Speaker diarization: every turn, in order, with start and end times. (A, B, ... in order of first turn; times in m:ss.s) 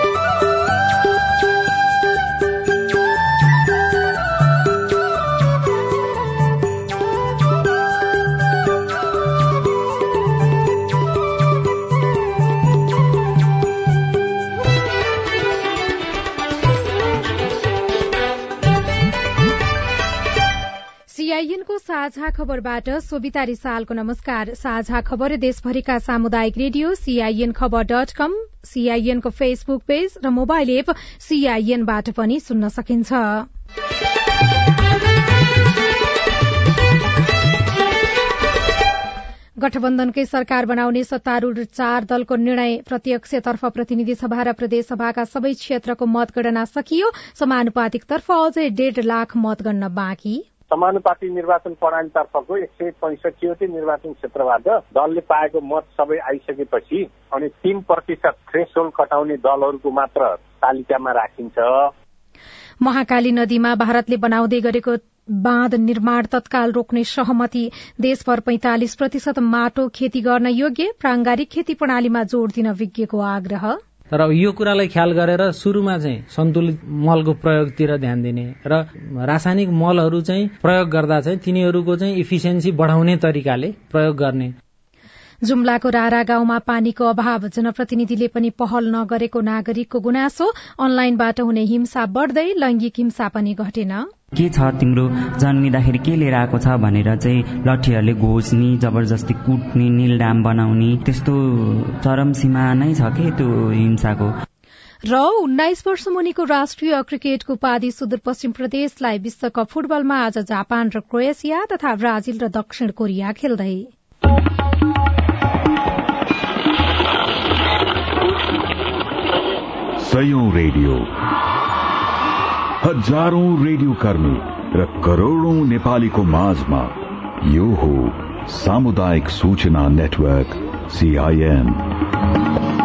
0:21.1-0:33.5 A
0:39.6-0:50.4 A
0:50.7-1:01.9 B
1:02.8-1:13.8 A
1:14.1-1:24.5 C
1:25.4-1:34.1 A
1:34.4-1:44.3 D
1:45.1-1:53.9 A
2:00.0-2:01.1 E
2:02.8-2:11.9 E